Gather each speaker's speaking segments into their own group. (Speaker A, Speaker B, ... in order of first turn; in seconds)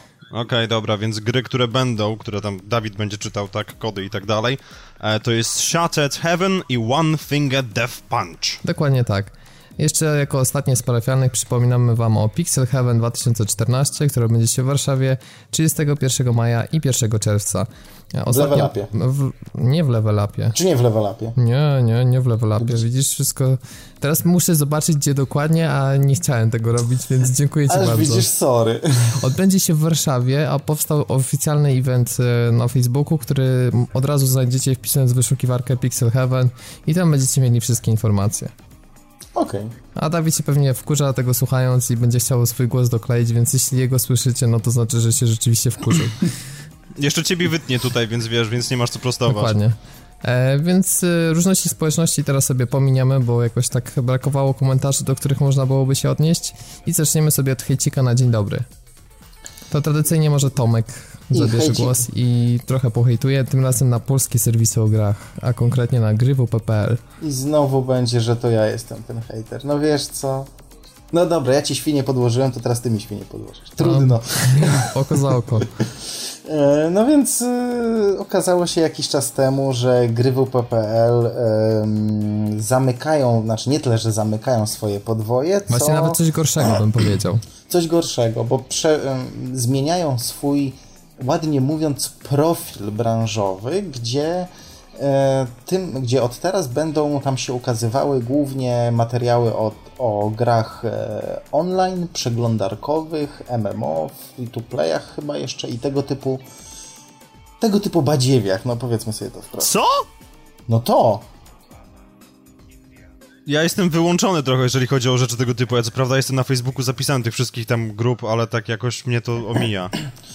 Speaker A: 0.3-8.6, 47.0-49.5, 109.6-110.1, 113.5-119.9
Speaker B: 8.6-20.6, 21.4-28.3, 29.1-38.5, 39.9-46.3, 49.3-58.6, 59.7-67.0, 73.8-75.7, 85.7-87.4
Speaker C: 18.3-18.9, 20.5-21.4, 27.7-29.2, 39.3-39.7, 61.3-62.1, 67.2-70.5, 71.1-86.8, 87.7-106.4, 107.6-109.7, 110.7-111.2